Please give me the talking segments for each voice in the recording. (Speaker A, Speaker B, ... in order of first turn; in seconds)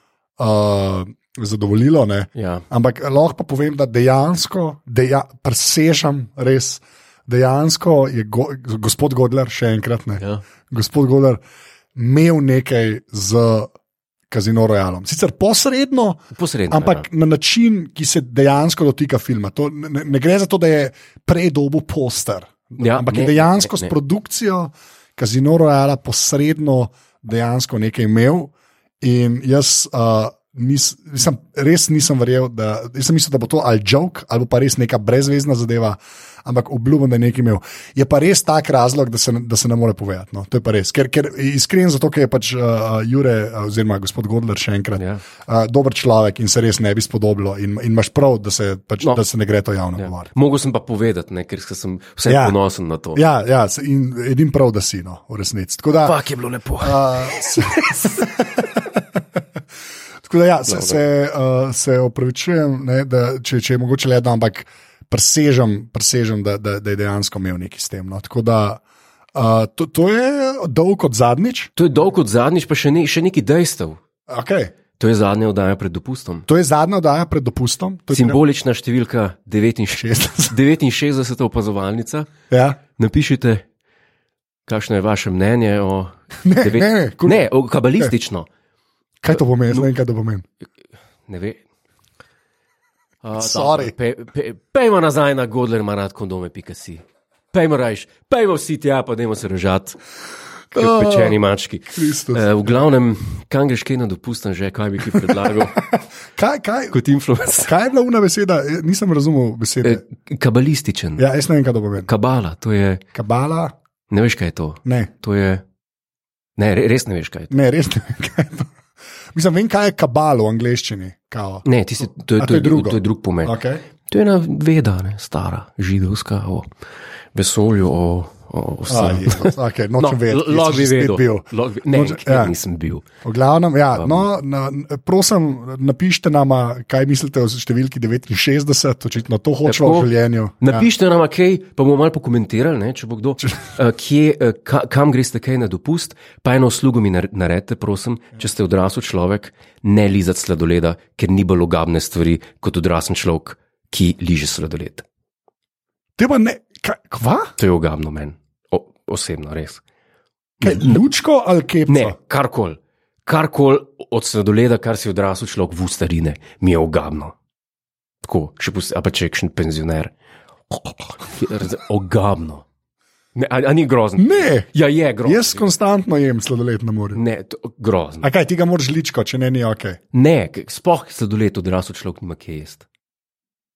Speaker A: 0.4-11.4, 11.9-13.7, 14.3-50.3, 52.2-52.5, 53.1-56.2, 56.8-59.0, 60.2-68.8, 69.3-71.7, 74.3-74.7, 76.5-78.4, 80.0-80.5, 82.5-82.8, 86.4-88.1, 89.2-90.4, 93.4-93.9, 100.7-101.4, 101.9-102.5, 105.2-107.0, 107.6-110.0, 111.2-112.1, 113.1-113.7, 114.8-115.1, 117.5-118.7, 119.3-121.6, 122.4-123.8, 128.9-132.5, 133.2-140.8, 156.2-157.5, 160.6-162.1, 174.2-174.7, 175.2-177.2, 178.2-180.0
Speaker B: 2.4-2.6, 16.3-17.1, 22.8-23.9, 45.0-45.2, 50.0-53.2, 55.9-58.3, 60.7-61.0, 71.8-74.0, 75.0-76.5, 78.1-82.3, 83.0-83.6, 84.7-88.5, 91.3-91.6, 93.2-100.0, 100.8-105.8, 106.9-107.7, 109.8-111.2, 112.0-113.0, 114.1-115.6, 116.6-117.5, 121.6-126.7, 127.3-133.1, 133.9-134.3, 139.6-140.1, 140.6-155.1, 157.6-159.8, 160.6-161.0, 161.9-167.3, 168.2-170.1, 171.2-172.6, 173.3-175.6, 177.1-178.3, 180.1-182.8